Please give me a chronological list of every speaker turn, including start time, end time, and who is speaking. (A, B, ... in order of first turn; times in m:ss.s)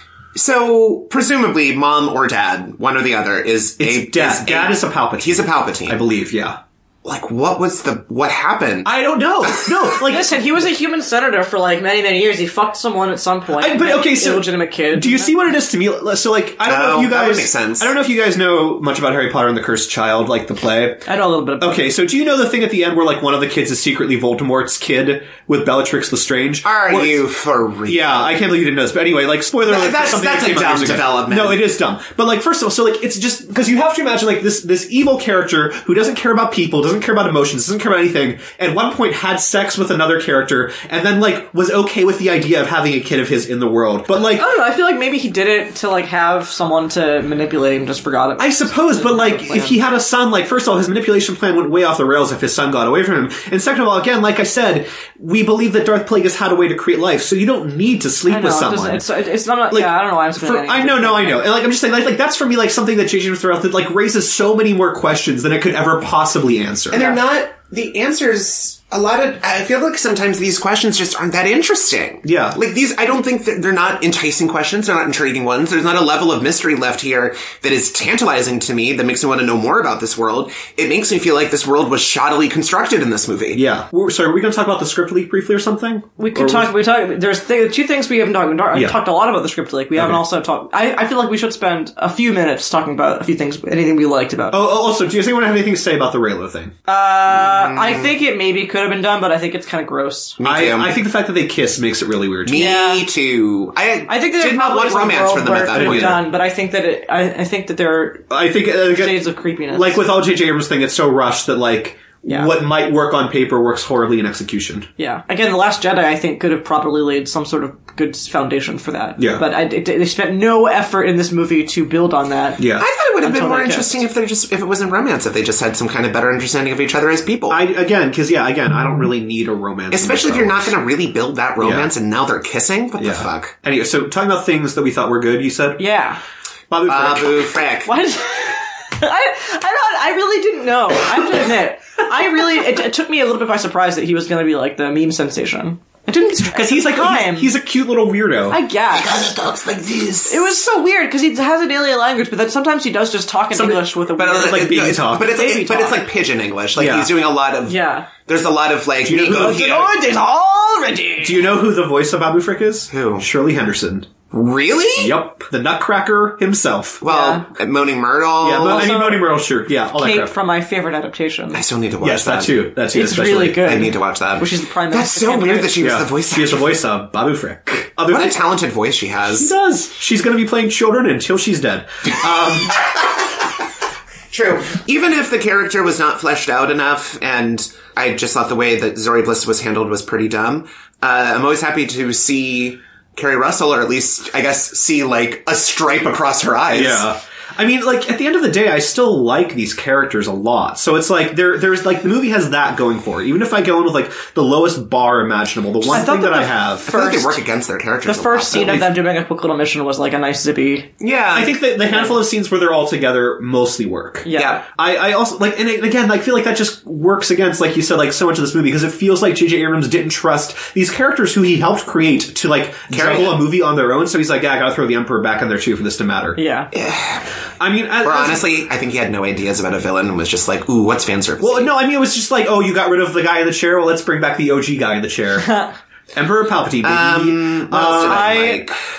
0:00.4-0:06.0 A
0:03.8-0:06.6 B
0:07.0-0:08.9 A
0:08.8-0:10.7 B
0:09.4-0:09.9 A
0:10.0-0:15.3 C
0:13.6-0:21.0 B
0:16.6-0:17.9 A
0:21.1-0:21.9 C
0:21.6-0:27.2 B
0:26.6-0:28.3 A
0:27.9-0:44.5 B
0:29.6-0:31.6 A
0:44.3-0:49.8 C
0:48.4-0:59.0 B
0:58.3-1:01.4 C
0:59.7-1:07.1 B
1:06.9-1:23.6 A
1:06.9-1:07.2 C
1:12.2-1:12.6 B
1:23.5-1:26.7 B
1:26.2-1:34.6 C
1:30.0-1:30.2 B
1:34.5-1:36.7 B
1:36.9-1:40.4 C
1:37.4-1:38.1 A
1:40.4-1:41.0 A
1:40.4-1:42.7 B
1:42.5-1:46.2 A
1:42.6-1:43.0 C
1:44.1-1:48.3 C
1:45.7-1:46.2 B
1:48.3-1:54.9 B
1:48.9-1:50.0 C
1:52.3-1:52.5 C
1:55.0-2:02.7 C
1:59.2-1:59.4 B
2:02.6-2:02.8 B
2:02.8-2:07.6 A
2:03.2-2:04.0 C
2:07.5-2:10.7 B
2:09.9-2:13.5 A
2:11.6-2:11.9 B
2:13.0-2:15.8 B
2:15.8-2:16.2 C
2:16.7-2:17.6 B
2:16.9-2:17.9 A
2:17.8-2:27.5 C
2:26.5-2:28.6 B
2:28.5-2:29.4 C
2:28.9-2:30.5 A
2:30.3-2:36.0 C
2:33.5-2:35.4 B
2:34.2-2:40.0 A
2:36.8-2:37.1 B
2:37.7-2:38.1 C
2:39.0-2:39.9 B
2:39.2-2:41.4 C
2:41.2-2:44.1 B
2:42.9-2:43.3 A
2:44.3-2:45.2 A
2:45.0-2:47.0 B
2:47.0-2:48.9 A
2:47.0-2:47.5 C
2:48.4-2:50.3 B
2:48.6-2:51.6 C
2:51.5-2:52.6 A
2:52.0-2:53.7 B
2:52.9-2:55.8 C
2:53.6-2:56.7 A
2:55.8-2:58.4 B
2:58.1-2:59.5 A
2:59.3-3:02.8 B
3:02.7-3:03.4 A
3:04.3-3:17.1 A
3:16.7-3:27.0 B
3:25.8-3:27.4 C
3:26.9-3:28.8 A
3:28.1-3:30.9 C
3:28.5-3:28.9 B
3:31.0-3:31.5 A
3:31.3-3:46.4 B
3:34.2-3:34.6 C
3:34.4-3:34.6 A
3:42.9-3:43.4 A
3:46.4-3:46.7 C
3:46.7-3:47.3 A
3:47.6-3:48.5 B
3:48.0-3:51.7 A
3:51.4-3:55.5 B
3:55.4-3:55.8 C
3:56.1-3:58.3 B
3:56.8-3:58.8 A
3:58.0-3:58.6 C